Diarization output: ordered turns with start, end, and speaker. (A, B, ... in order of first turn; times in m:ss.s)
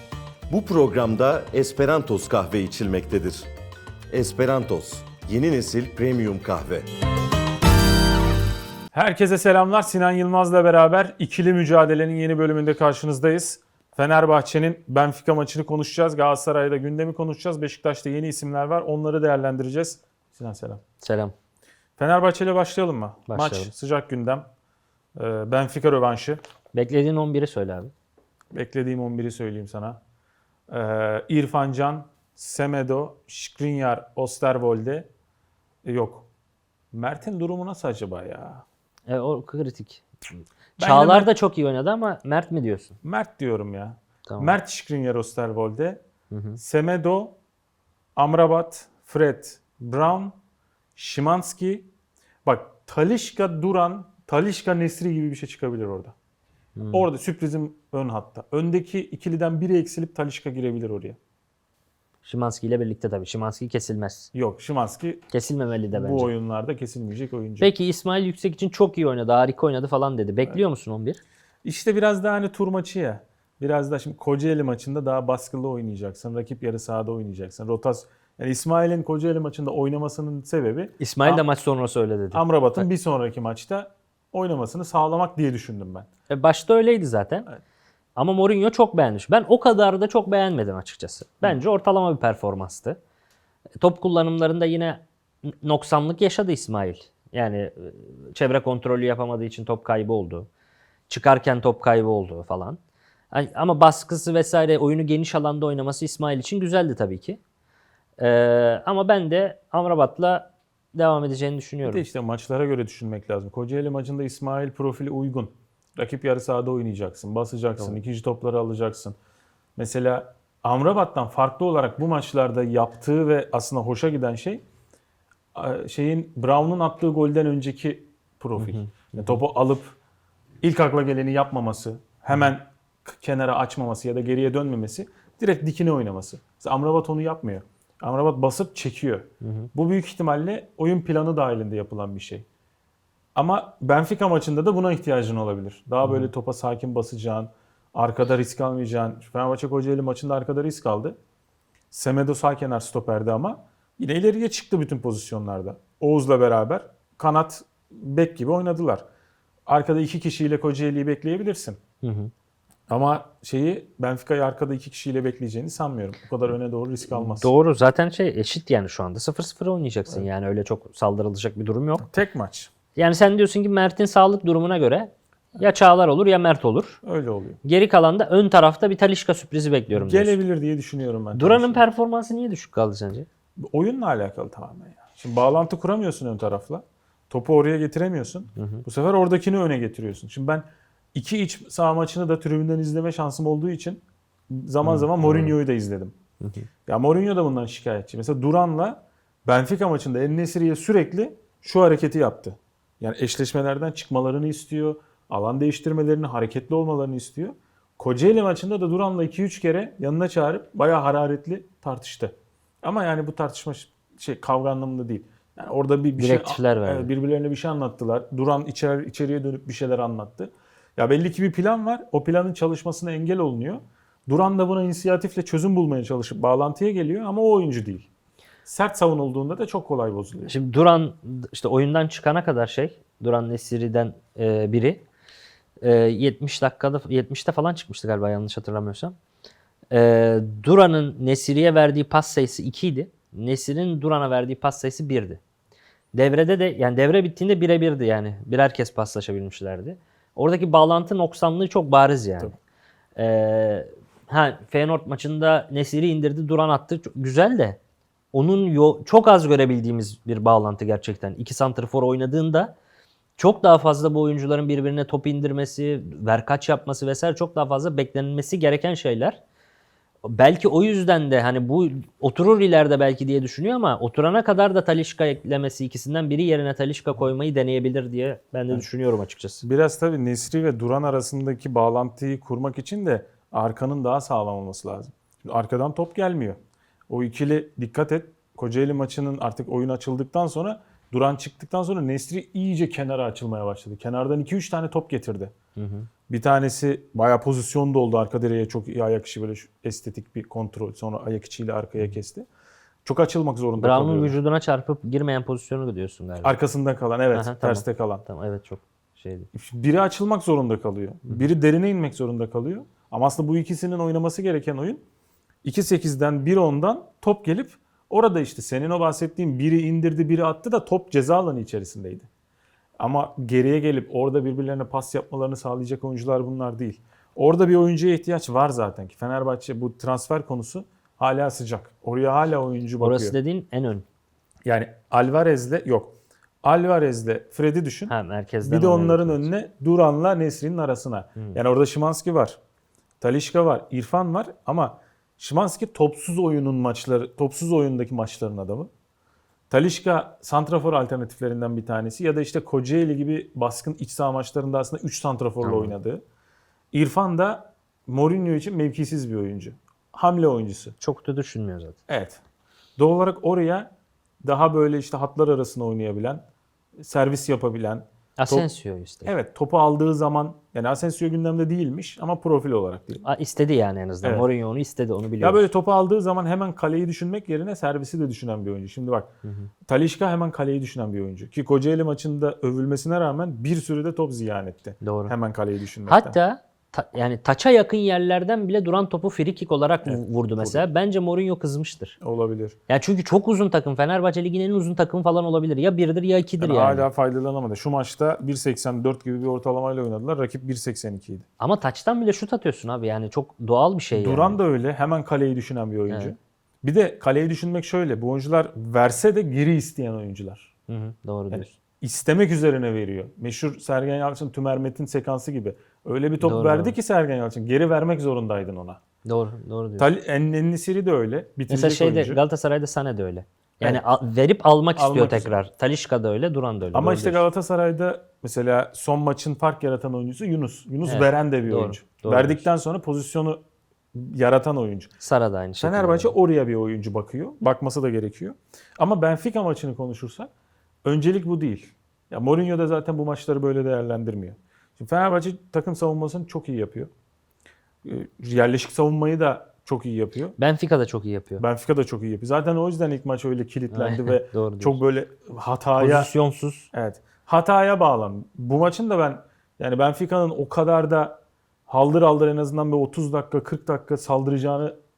0:00.5-0:03.5 A
0:04.1-0:06.9 A
0:08.9-0:20.8 B
0:21.0-0:21.3 C
0:22.0-0:24.5 B
0:23.3-0:23.7 C
0:25.2-0:26.4 B
0:26.7-0:27.9 C
0:28.5-0:30.0 B
0:30.7-0:35.1 B
0:35.8-0:36.3 B
0:36.9-0:38.6 B
0:39.1-0:40.0 C
0:40.8-0:41.3 B
0:40.8-0:43.0 C
0:43.0-0:46.0 B
0:44.3-0:44.6 C
0:46.3-0:46.6 C
0:46.6-0:47.4 B
0:48.2-0:50.3 B
0:51.0-0:51.9 B
0:52.4-0:56.1 B
0:56.8-0:57.1 C
0:56.9-1:01.2 B
1:02.2-1:04.3 C
1:04.3-1:05.2 B
1:05.3-1:06.3 C
1:05.9-1:07.7 B
1:07.6-1:11.2 C
1:11.6-1:21.4 B
1:21.0-1:22.8 C
1:22.3-1:26.1 B
1:26.3-1:27.5 C
1:28.2-1:33.0 C
1:33.8-1:40.5 C
1:41.1-1:42.8 C
1:43.3-1:47.4 C
1:48.2-1:52.0 C
1:51.8-1:59.2 B
1:59.8-2:04.6 B
2:05.6-2:10.0 B
2:08.6-2:09.4 C
2:10.6-2:22.4 B
2:19.4-2:19.7 C
2:23.4-2:31.2 B
2:26.0-2:26.3 C
2:31.9-2:39.0 B
2:39.7-2:41.8 B
2:42.0-2:42.3 C
2:42.9-2:47.5 B
2:47.1-2:52.1 C
2:52.0-2:52.7 B
2:53.0-2:57.0 C
2:57.0-2:57.6 B
2:57.6-3:00.4 C
2:59.9-3:01.8 B
3:01.4-3:03.3 C
3:03.6-3:16.1 B
3:08.6-3:08.8 C
3:14.8-3:15.6 C
3:16.4-3:16.7 C
3:16.9-3:48.1 B
3:36.2-3:37.1 C
3:48.6-3:50.5 B
3:50.5-3:55.0 C
3:55.8-3:59.2 C
3:59.9-4:05.4 C
4:06.1-4:12.5 C
4:13.2-4:17.8 C
4:18.3-4:22.7 C
4:23.4-4:29.4 C
4:30.2-4:39.6 C
4:39.6-4:55.5 B
4:55.8-4:56.1 C
4:56.3-5:02.5 B
5:03.0-5:04.4 B
5:03.8-5:06.6 C
5:06.4-5:08.2 B
5:07.3-5:09.5 C
5:09.5-5:15.0 B
5:15.6-5:22.3 B
5:23.0-5:33.4 B
5:33.0-5:34.0 C
5:34.6-5:38.1 B
5:38.1-5:39.5 C
5:38.6-5:42.6 B
5:43.2-5:48.9 B
5:49.7-5:56.2 B
5:55.6-5:56.0 C
5:56.9-6:01.0 B
6:01.0-6:02.0 C
6:02.1-6:02.4 B
6:03.0-6:03.9 B
6:04.4-6:06.4 B
6:07.0-6:08.7 B
6:08.4-6:09.3 C
6:09.2-6:13.2 B
6:13.2-6:15.7 C
6:15.4-6:19.3 B
6:19.4-6:19.7 C
6:19.9-6:26.4 B
6:25.0-6:25.3 C
6:26.1-6:32.2 C
6:30.0-6:30.8 B
6:32.2-6:32.8 B
6:32.9-6:37.1 C
6:36.6-6:41.5 B
6:41.6-6:44.6 C
6:44.1-6:50.7 B
6:50.9-6:51.7 C
6:51.5-6:59.0 B
6:56.4-6:57.0 C
6:59.2-7:00.1 C
7:00.0-7:02.4 B
7:01.7-7:07.4 C
7:05.0-7:05.6 B
7:06.9-7:13.6 B
7:11.0-7:12.6 C
7:14.1-7:15.1 B
7:15.2-7:16.3 C
7:15.8-7:20.5 B
7:21.0-7:27.1 B
7:28.0-7:30.6 B
7:30.6-7:31.6 C
7:31.6-7:36.3 B
7:33.9-7:35.0 C
7:36.0-7:36.9 C
7:36.9-7:45.0 B